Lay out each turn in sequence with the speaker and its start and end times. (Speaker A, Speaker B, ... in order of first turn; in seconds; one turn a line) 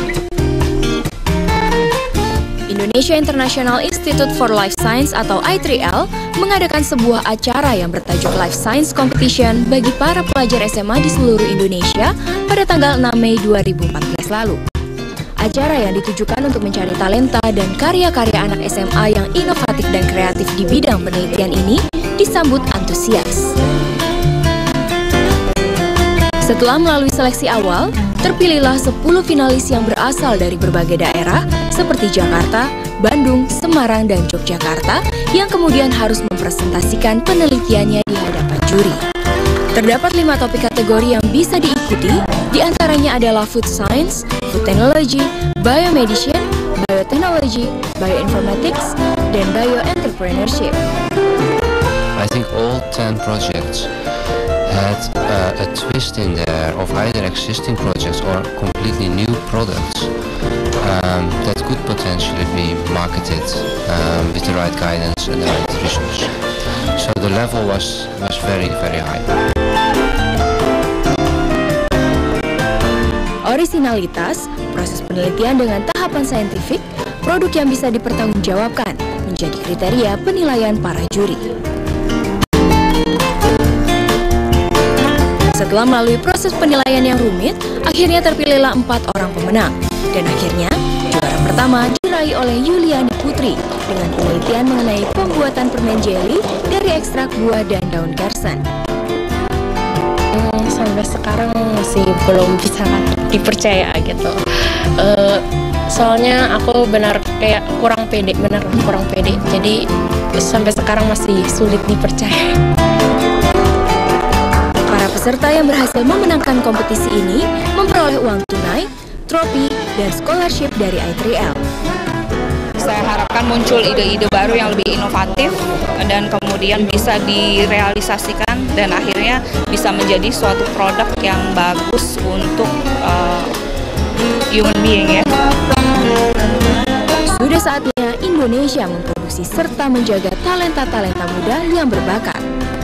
Speaker A: 2.7-14.6
Speaker A: 15.4-23.5
Speaker A: 26.4-39.0
Speaker A: 39.7-50.8
Speaker B: 52.1-53.9
Speaker B: 54.6-60.1
Speaker B: 60.8-69.3
Speaker A: 73.4-81.5
Speaker A: 85.5-98.6
Speaker C: 100.3-104.4
Speaker C: 105.0-109.8
Speaker C: 110.4-112.5
Speaker A: 114.9-121.6
Speaker D: 122.8-133.5
Speaker D: 134.5-135.3
Speaker A: 137.3-142.4